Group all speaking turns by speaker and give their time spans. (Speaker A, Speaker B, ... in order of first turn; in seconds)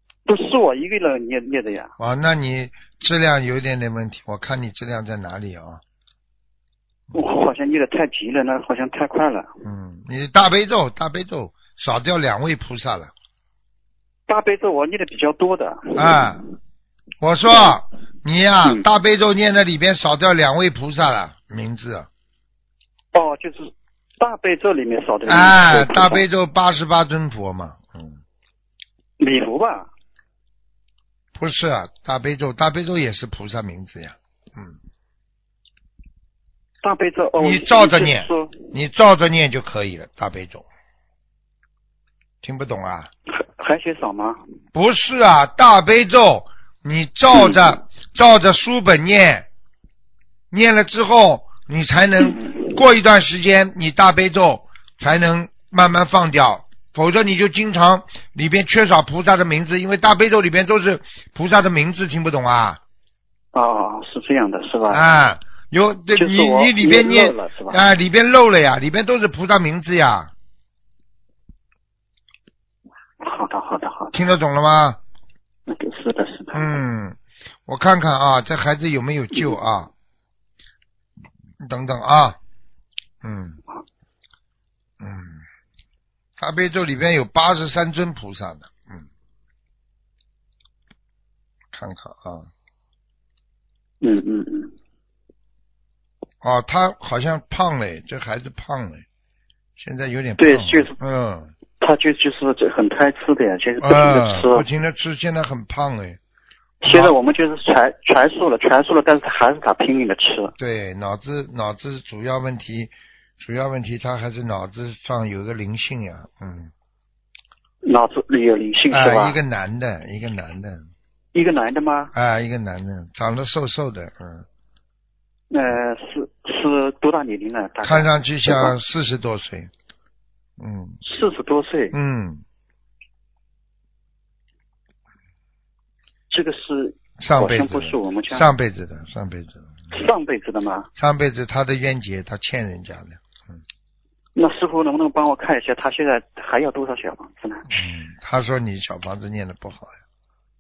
Speaker A: 0.3-1.9, 7.1-9.5, 14.3-16.2, 23.1-26.2, 29.2-29.9, 36.8-38.7, 43.3-44.4, 47.4-47.6, 52.4-52.6, 63.5-65.1, 66.2-67.8, 73.2-74.2, 75.7-76.8, 94.0-94.7, 100.4-101.0, 101.8-104.7, 106.8-110.5, 117.8-119.4, 121.3-122.1, 125.5-128.7, 131.0-131.9, 136.3-138.5, 139.9-140.9, 144.4-147.8
Speaker B: 2.0-5.8, 9.6-13.1, 15.9-16.4, 17.2-22.1, 25.3-28.2, 31.4-34.8, 37.4-40.6, 42.4-43.1, 44.7-49.5, 50.5-62.8, 64.9-70.3, 74.1-75.0, 76.5-79.9, 81.6-82.4, 83.2-83.6, 85.0-85.5, 86.4-89.1, 91.7-92.5, 96.4-99.0, 99.8-101.5, 103.8-106.2, 106.9-107.1, 110.6-116.7, 118.9-120.9, 122.1-124.5, 127.8-129.7, 130.6-131.0, 131.9-132.4, 137.2-139.9, 141.0-143.6, 147.7-150.0